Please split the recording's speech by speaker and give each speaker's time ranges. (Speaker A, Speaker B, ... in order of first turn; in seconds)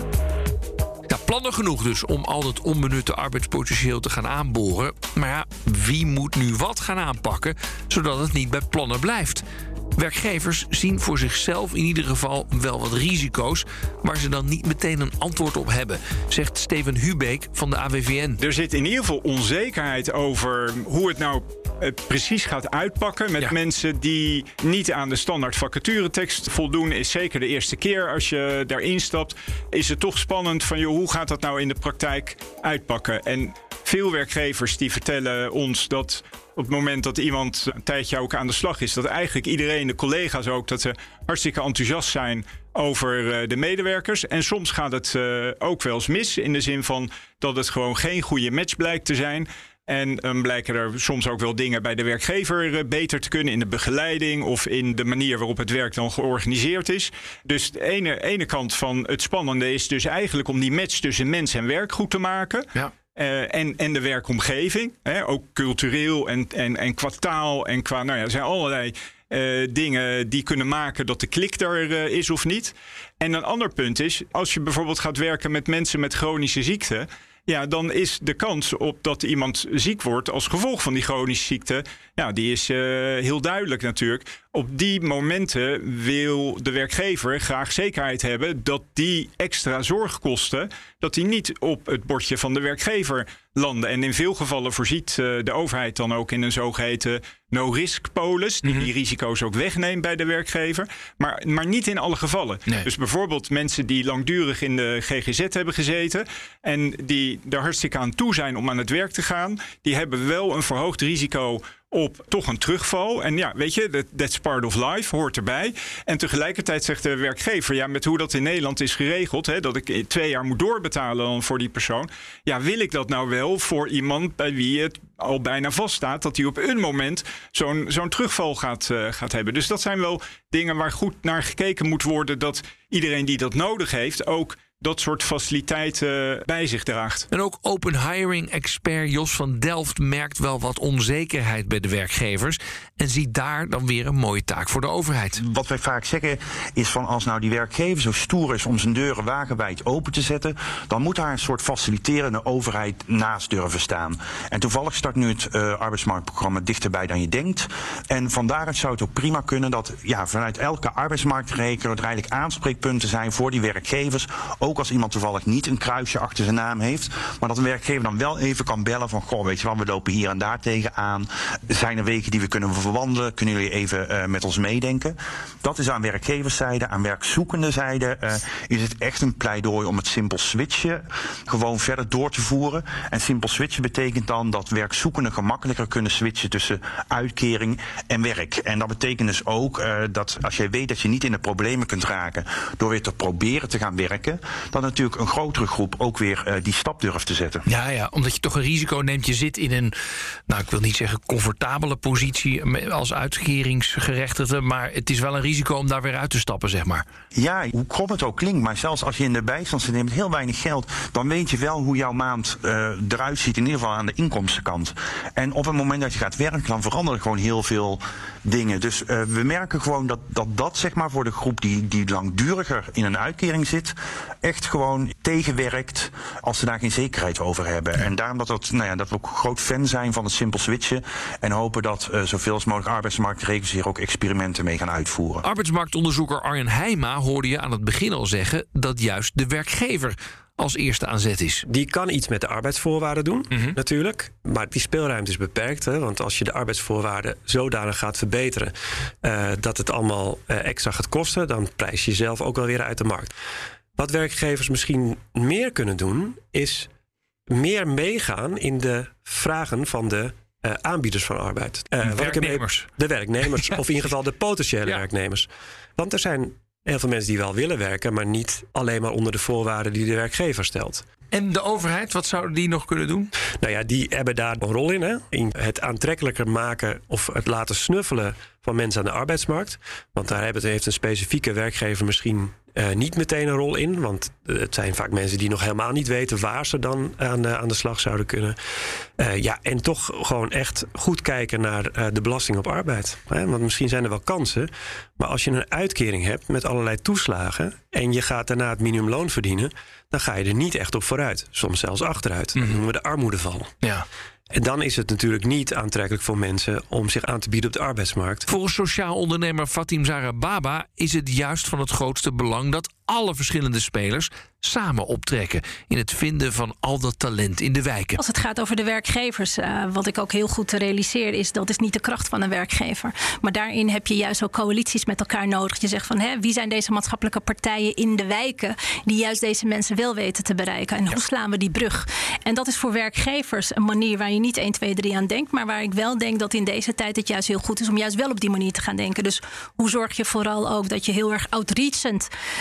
Speaker A: 1.1-9.4, 10.0-18.4, 98.6-98.9, 137.3-145.4, 197.7-199.9, 200.5-207.0, 235.4-241.7, 262.0-262.9, 271.3-273.3, 302.6-302.8, 308.5-318.2
Speaker B: 18.4-137.3
Speaker C: 145.4-197.6, 207.3-235.4
Speaker D: 241.7-253.3, 253.9-256.9, 257.5-271.0, 273.6-288.6, 289.2-303.7, 304.5-308.5
Speaker E: 318.2-342.3